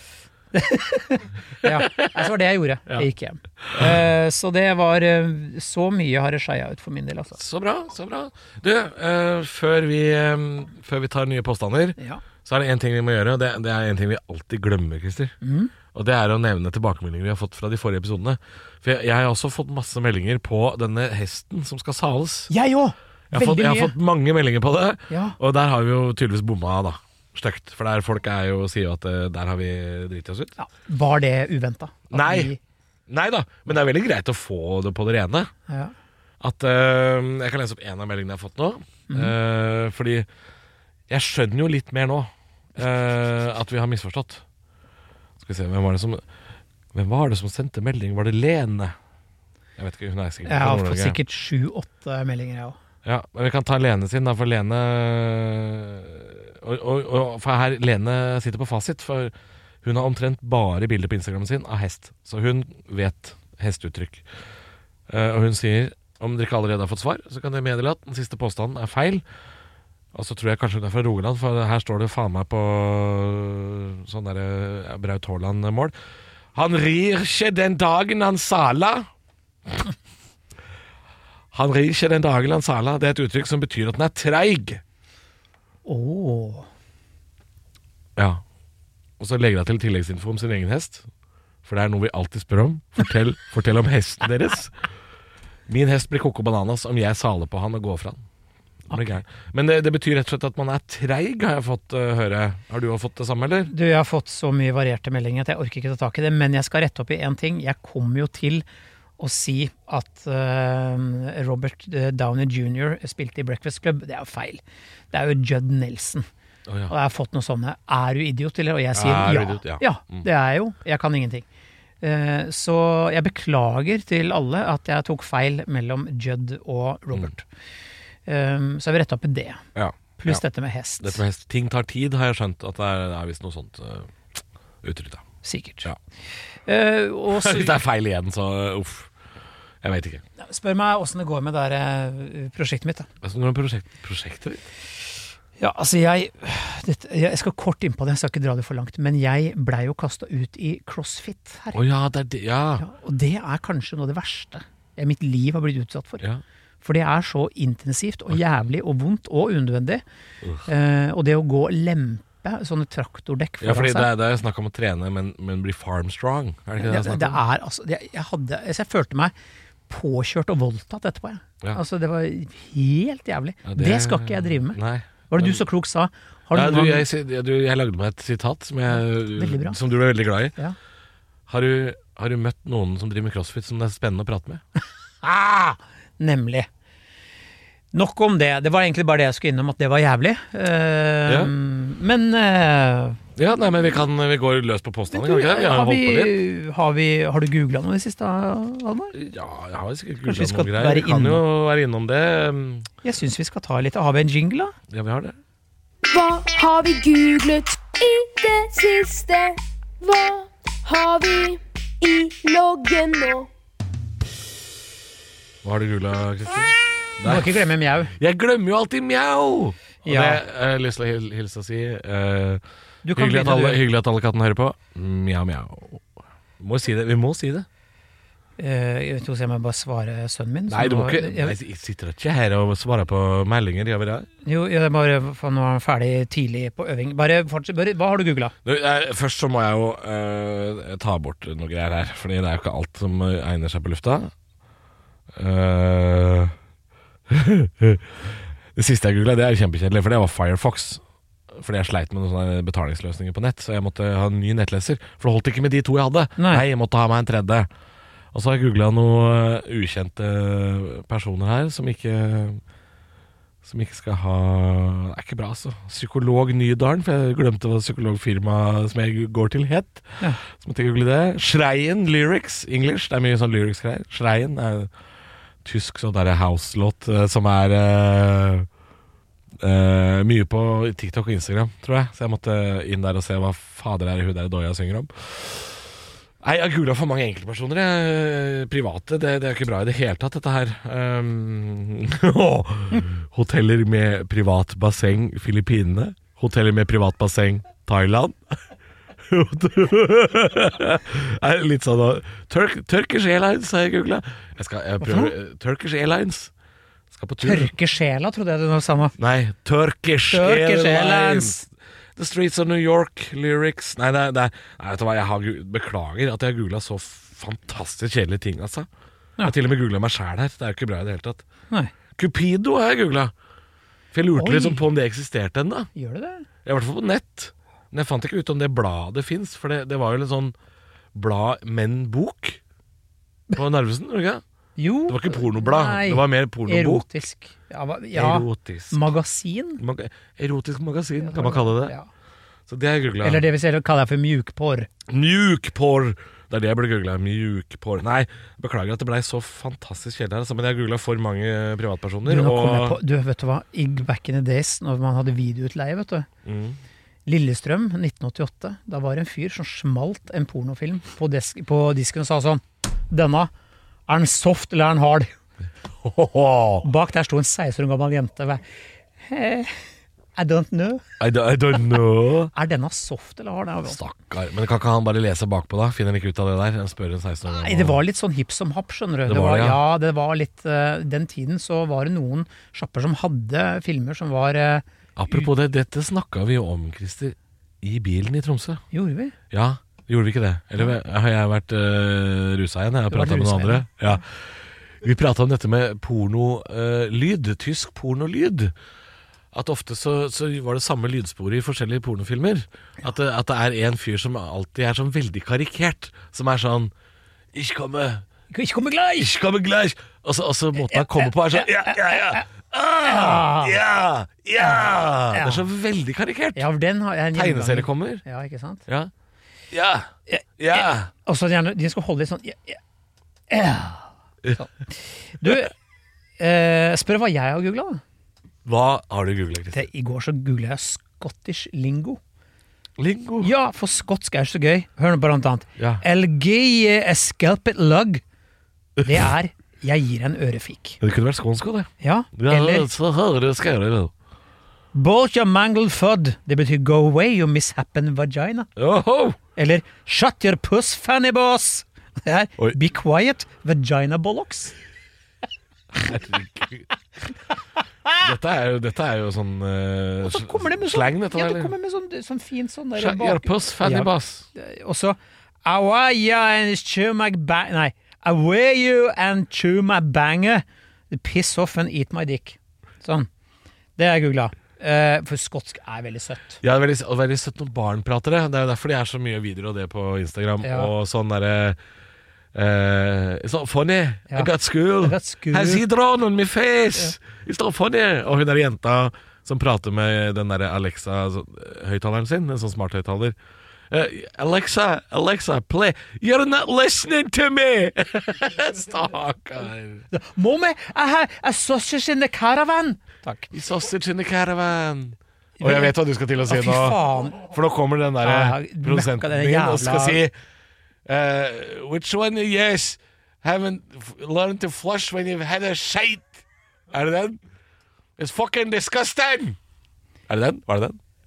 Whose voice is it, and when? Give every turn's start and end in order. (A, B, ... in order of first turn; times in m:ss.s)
0:00.5-0:07.4 A
0:01.6-0:02.2 B
0:03.6-0:04.0 B
0:07.4-0:15.4 B
0:12.0-0:12.2 A
0:15.4-0:15.7 A
0:15.9-0:22.5 B
0:22.5-0:23.9 A
0:23.3-0:30.5 B
0:25.1-0:25.4 A
0:30.6-0:32.6 A
0:32.1-0:32.5 B
0:33.1-0:35.5 B
0:35.7-0:35.9 A
0:36.4-0:40.3 B
0:41.1-0:44.4 B
0:45.4-0:46.2 B
0:46.9-0:48.9 B
0:49.8-0:51.2 B
0:50.4-0:52.8 A
0:53.0-1:04.2 B
1:05.1-1:09.2 B
1:10.1-1:15.9 B
1:16.5-1:19.1 B
1:21.5-1:24.8 B
1:25.8-1:26.7 A
1:28.2-1:28.4 B
1:29.2-1:31.1 B
1:31.6-1:34.7 B
1:35.7-1:38.2 B
1:38.9-1:43.7 B
1:43.7-1:48.6 A
1:49.2-1:56.3 A
1:56.7-1:56.9 B
1:56.9-2:01.4 A
1:58.9-2:00.3 B
2:02.0-2:07.4 A
2:08.2-2:09.6 A
2:09.7-2:10.4 B
2:10.2-2:11.2 A
2:11.0-2:14.1 B
2:14.8-2:15.2 B
2:15.4-2:15.9 A
2:16.6-2:17.8 A
2:17.3-2:19.1 B
2:19.8-2:20.2 B
2:20.4-2:23.1 A
2:23.2-2:24.6 B
2:25.6-2:31.8 A
2:31.7-2:32.8 B
2:32.8-2:36.2 A
2:36.8-2:40.0 A
2:40.6-2:44.1 A
2:43.6-2:47.4 B
2:46.8-2:49.3 A
2:49.9-2:57.0 A
2:53.6-2:55.6 B
2:56.5-3:00.6 B
2:59.3-2:59.8 A
3:01.5-3:04.6 B
3:05.2-3:06.7 A
3:07.9-3:13.2 A
3:11.3-3:11.5 B
3:13.4-3:16.3 B
3:15.1-3:19.2 A
3:19.1-3:22.9 B
3:20.2-3:21.4 A
3:23.0-3:24.7 A
3:24.9-3:25.4 B
3:26.1-3:33.5 C
3:35.6-3:37.6 B
3:37.2-3:38.1 A
3:38.2-3:42.6 B
3:40.0-3:40.4 A
3:43.0-3:43.8 A
3:43.1-3:47.6 B
3:48.6-3:51.6 A
3:50.7-3:54.3 B
3:54.4-3:58.5 A
3:58.6-4:04.3 B
4:05.3-4:06.5 B
4:07.3-4:17.7 B
4:16.4-4:16.6 A
4:18.3-4:22.6 B
4:23.6-4:34.9 B
4:35.6-4:38.7 B
4:39.6-4:58.6 B
4:59.2-5:06.5 B
5:05.0-5:05.3 A
5:07.1-5:07.7 B
5:07.4-5:09.1 A
5:09.2-5:11.6 B
5:10.3-5:11.6 A
5:12.2-5:18.9 B
5:19.4-5:21.4 B
5:22.2-5:23.3 B
5:24.1-5:25.9 B
5:24.4-5:24.8 A
5:25.9-5:26.4 A
5:26.6-5:30.5 B
5:31.1-5:32.6 B
5:33.5-5:34.4 B
5:34.8-5:39.8 A
5:35.1-5:37.1 B
5:38.1-5:39.0 B
5:39.8-5:41.9 B
5:41.2-5:42.1 A
5:42.7-5:43.5 B
5:43.2-5:44.9 A
5:45.1-5:53.0 B
5:52.2-5:56.3 A
5:56.4-5:56.8 B
5:57.2-6:03.5 A
6:04.1-6:05.3 A
6:06.0-6:06.9 B
6:06.8-6:08.6 A
6:09.2-6:09.8 A
6:10.4-6:11.0 A
6:11.2-6:12.5 B
6:12.5-6:14.0 A
6:13.8-6:18.0 B
6:17.4-6:25.5 A
6:19.3-6:19.8 B
6:25.2-6:28.8 B
6:28.9-6:29.3 A
6:29.5-6:38.7 B
6:33.1-6:33.9 A
6:39.5-6:46.9 B
6:47.5-6:48.2 B
6:48.5-6:49.3 A
6:49.2-6:56.7 B
6:50.9-6:52.4 A
6:53.0-6:53.8 A
6:54.6-6:55.6 A
6:56.5-6:58.8 A
6:57.3-6:58.2 B
6:59.7-7:01.1 B
7:00.3-7:02.8 A
7:03.5-7:04.7 A
7:05.4-7:05.7 A
7:06.4-7:08.0 A
7:08.6-7:09.9 B
7:09.7-7:12.2 A
7:13.0-7:13.5 B
7:13.4-7:18.2 A
7:15.8-7:16.0 B
7:19.0-7:21.0 A
7:21.0-7:24.1 B
7:22.0-7:22.9 A
7:24.9-7:28.7 A
7:28.8-7:29.4 B
7:29.6-7:34.7 A
7:35.9-7:36.9 B
7:38.2-7:41.7 B
7:40.2-7:53.3 A
7:42.9-7:44.5 B
7:54.0-7:56.6 A
7:56.6-8:01.8 B
8:00.6-8:00.9 A
8:02.5-8:13.4 B
8:04.3-8:05.8 A
8:13.9-8:20.0 B
8:20.1-8:23.5 A
8:23.5-8:30.3 B
8:25.6-8:27.4 A
8:28.2-8:30.2 A
8:31.0-8:37.4 B
8:38.2-8:39.6 B
8:40.3-8:41.0 B